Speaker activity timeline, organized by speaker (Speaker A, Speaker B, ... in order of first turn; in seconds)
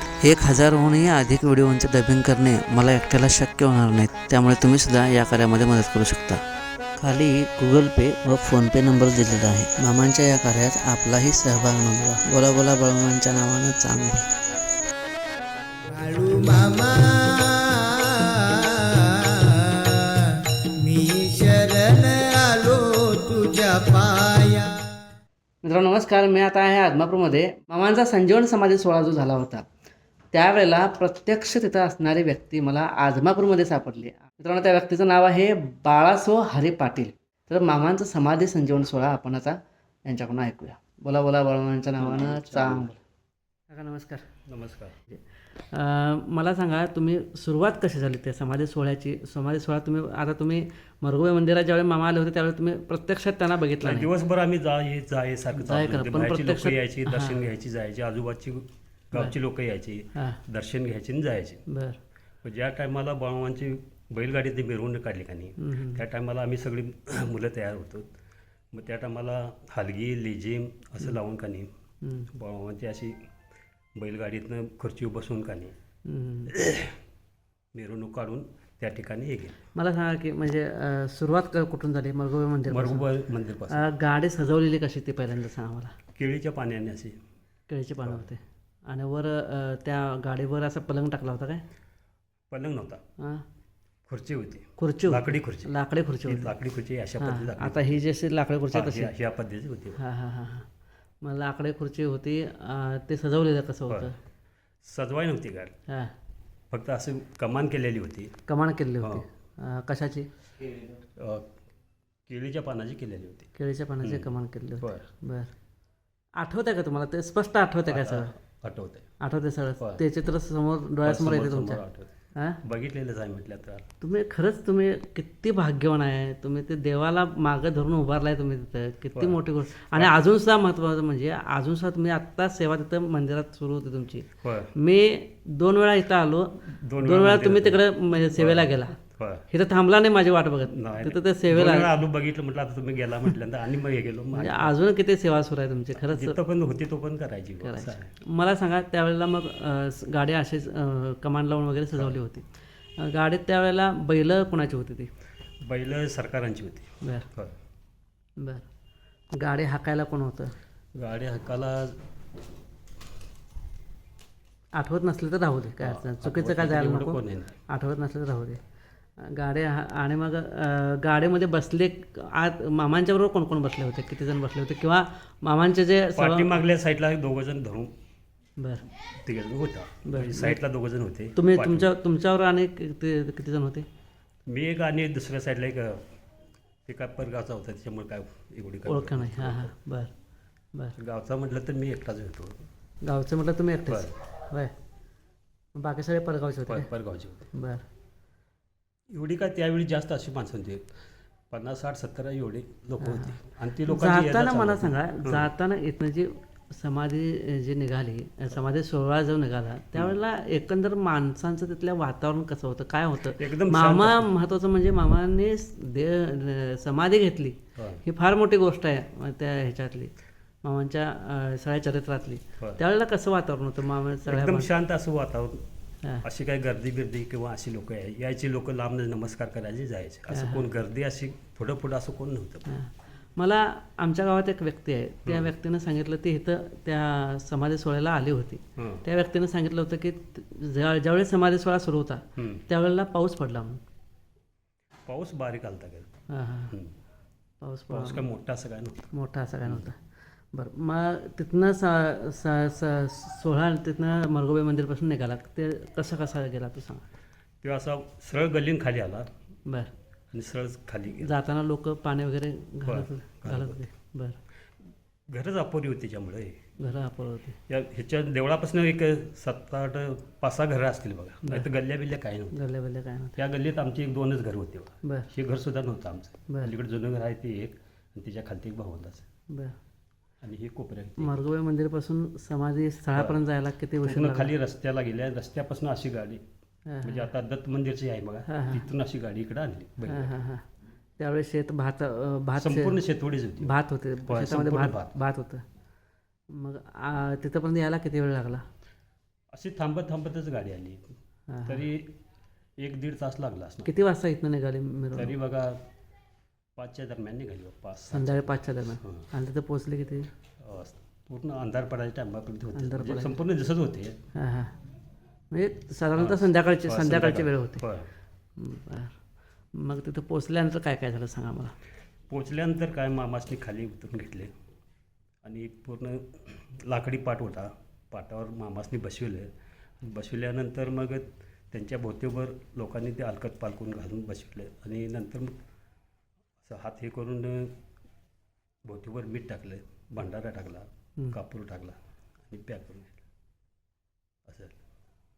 Speaker A: 0.2-6.4, 7.0-14.2, 25.6-29.6, 30.3-43.0, 43.7-44.3, 45.1-54.1, 55.5-57.4, 60.1-60.4, 61.7-62.0, 65.6-66.0, 72.0-72.3, 76.0-76.5, 79.7-83.1, 83.7-85.9, 87.7-91.6, 93.2-93.4, 94.8-96.5, 97.2-99.1, 100.0-100.7, 101.2-104.1, 108.5-110.3, 113.5-115.5, 116.4-118.3, 119.2-121.8, 122.3-122.6, 124.0-139.0, 139.5-141.9, 144.3-146.4, 147.6-152.4, 153.0-155.1, 158.4-158.6, 159.3-160.5, 164.8-168.6, 169.2-176.6, 178.6-178.8, 180.0-180.6, 181.3-183.8, 188.8-190.1, 193.0-194.7, 195.7-196.9, 197.5-197.8, 203.0-220.1, 220.6-224.7, 230.3-230.6, 232.7-243.8, 246.3-246.8, 247.6-248.2, 249.1-250.0, 250.5-257.1, 259.6-259.9, 261.1-264.4, 266.8-267.6, 272.5-273.4, 275.0-275.3, 279.5-279.8, 281.2-284.5, 286.9-287.3, 288.5-288.8, 290.1-290.6, 291.2-293.0, 293.6-295.6, 296.5-298.6, 301.5-301.8, 303.8-305.3, 308.1-310.3, 312.7-313.3, 314.3-314.7, 315.5-317.8, 318.6-319.2, 319.7-321.7
Speaker B: 15.8-25.0
Speaker C: 42.0-42.9, 44.5-44.9, 53.8-61.6, 62.4-68.1, 68.7-71.7, 72.3-73.2, 74.0-75.7, 76.5-77.0, 77.7-79.6, 82.7-83.8, 86.2-87.2, 88.0-88.3, 92.5-93.0, 94.1-95.7, 96.2-98.0, 98.7-100.0, 103.9-104.1, 104.8-105.7, 106.7-108.3, 109.0-109.2, 111.2-111.5, 112.3-113.5, 114.0-115.1, 117.9-119.1, 121.0-122.1, 122.6-123.8, 129.1-129.4, 134.4-134.7, 136.6-139.4, 140.7-144.7, 146.0-148.1, 151.9-152.2, 155.6-157.5, 160.9-162.0, 165.8-167.6, 176.2-177.9, 179.2-181.9, 184.5-186.1, 186.8-189.7, 190.9-192.6, 193.8-194.1, 196.7-197.5, 199.1-200.8, 201.5-205.5, 213.3-214.3, 217.7-218.0, 224.2-225.6, 226.2-232.7, 235.2-235.5, 238.8-239.0, 242.3-242.6, 245.1-246.1, 247.9-249.1, 257.6-259.3, 260.3-261.3, 262.9-263.8, 265.3-266.6, 267.7-272.6, 273.4-279.2, 280.4-281.3, 283.1-283.4, 284.0-286.4, 287.0-290.3, 292.6-293.7, 294.2-295.1, 299.5-301.0, 301.6-302.1, 302.8-303.9, 305.1-305.8, 306.8-309.3, 310.6-314.2, 316.1-318.1, 322.3-324.5, 325.4-329.5, 330.0-335.5, 336.6-337.7, 338.8-342.0, 342.5-343.2, 344.5-344.8